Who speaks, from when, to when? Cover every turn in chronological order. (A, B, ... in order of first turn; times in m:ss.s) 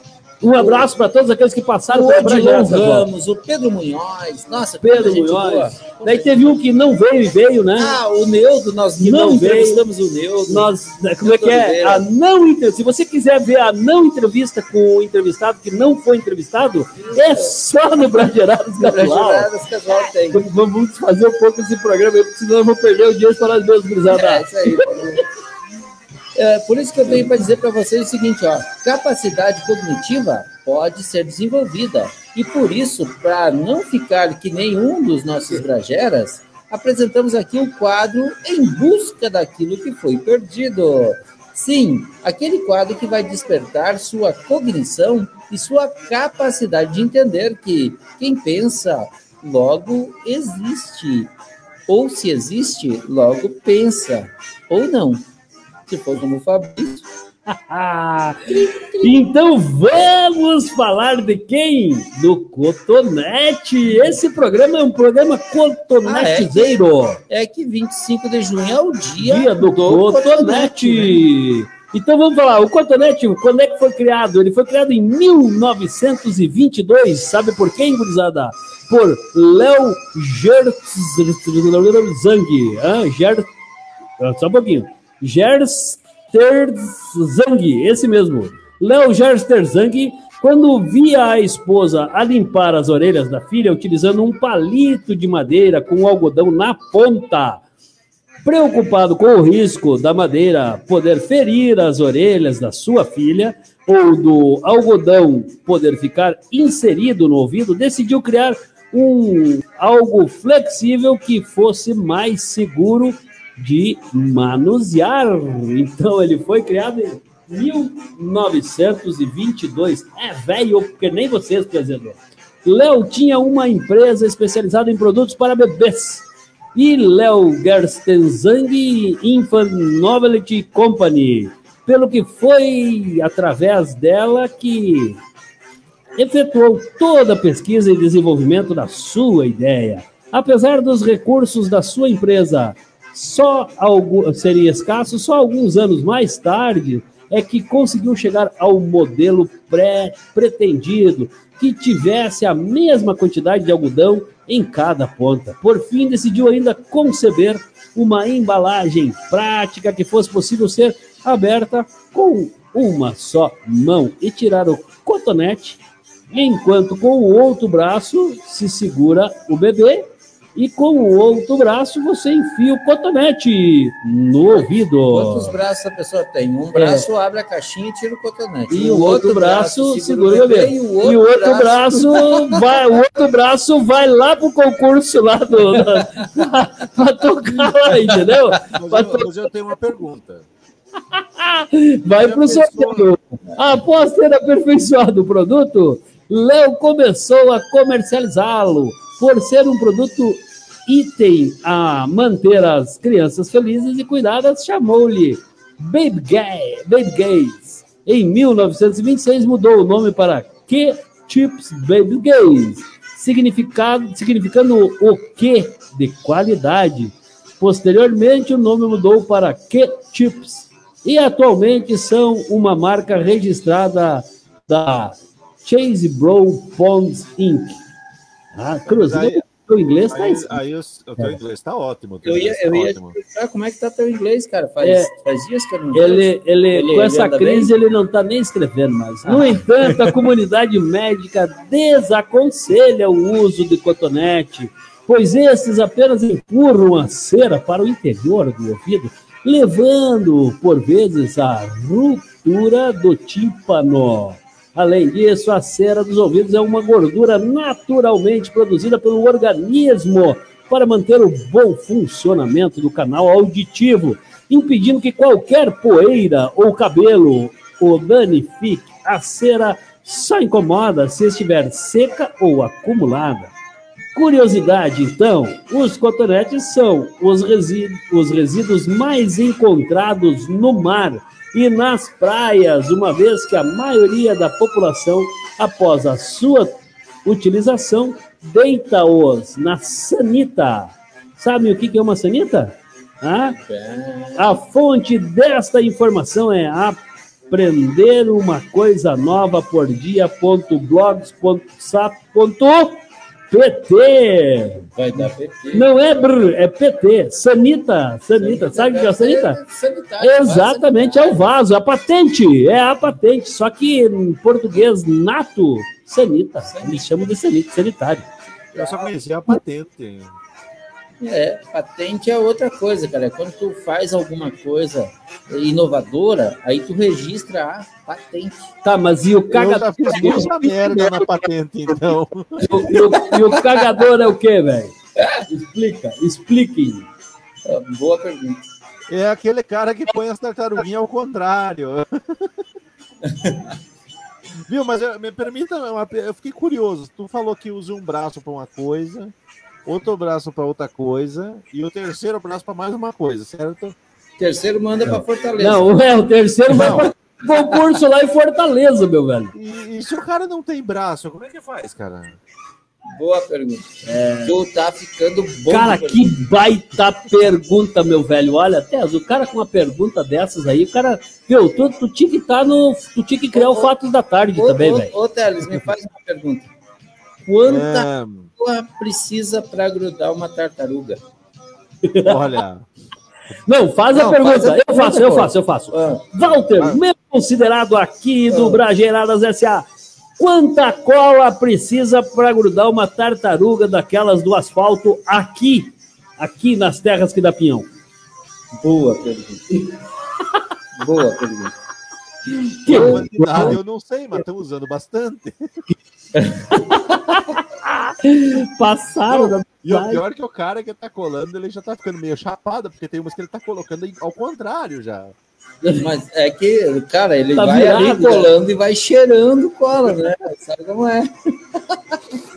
0:00.4-0:03.1 A
0:00.6-0:00.9 B
0:01.9-0:06.5 B
0:04.8-0:08.0 A
0:07.8-0:12.1 B
0:09.0-0:09.8 A
0:10.5-0:19.5 A
0:17.1-0:17.6 B
0:18.8-0:20.4 B
0:20.3-0:25.2 A
0:24.1-0:25.2 B
0:26.4-0:51.3 B
0:51.9-0:55.2 B
0:55.9-0:57.1 B
0:57.5-1:07.2 A
0:58.5-0:59.2 B
1:06.0-1:11.2 B
1:09.2-1:23.5 A
1:24.2-1:37.6 A
1:38.4-2:15.2 A
2:16.2-2:55.6 A
2:54.5-3:02.6 B
2:56.7-2:57.1 A
2:58.7-3:09.3 A
3:08.6-3:10.5 C
3:11.1-3:47.8 A
3:12.1-3:13.1 C
3:48.5-3:50.6 A
3:48.9-3:49.4 C
3:50.1-3:53.2 C
3:52.2-3:57.7 B
3:54.8-3:55.1 A
3:55.9-4:33.5 A
3:59.2-4:00.2 B
4:34.1-4:53.6 A
4:53.4-4:54.6 B
4:54.4-5:03.0 A
5:03.5-5:04.9 A
5:04.9-5:05.9 B
5:05.7-5:09.6 A
5:08.4-5:11.5 B
5:10.2-5:18.3 A
5:16.6-5:17.2 B
5:18.8-5:19.1 B
5:18.8-5:20.3 C
5:21.2-5:28.7 B
5:28.8-5:31.4 A
5:29.5-5:32.9 C
5:32.6-5:34.9 A
5:33.4-5:33.7 B
5:35.5-5:37.1 A
5:37.6-5:38.6 B
5:39.1-5:42.5 C
5:43.2-5:43.7 B
5:44.7-5:49.3 C
5:49.8-5:54.0 C
5:54.4-5:55.9 B
5:55.1-5:59.5 A
5:56.7-5:57.1 C
5:59.6-6:02.4 C
6:03.1-6:06.4 B
6:04.1-6:04.6 A
6:05.7-6:15.1 A
6:13.5-6:13.9 B
6:14.6-6:16.7 B
6:17.4-6:21.2 B
6:17.7-6:18.5 C
6:22.0-6:22.4 A
6:22.2-6:22.8 C
6:23.7-6:29.9 A
6:24.1-6:26.2 B
6:26.5-6:27.0 C
6:28.5-6:28.8 B
6:30.4-6:37.9 A
6:38.8-6:39.6 B
6:41.0-6:41.8 B
6:42.5-6:43.8 A
6:42.9-6:45.8 C
6:42.9-6:43.7 B
6:46.4-6:46.7 B
6:46.7-6:50.2 A
6:49.3-6:55.3 C
6:56.0-7:02.2 B
6:57.6-6:58.5 A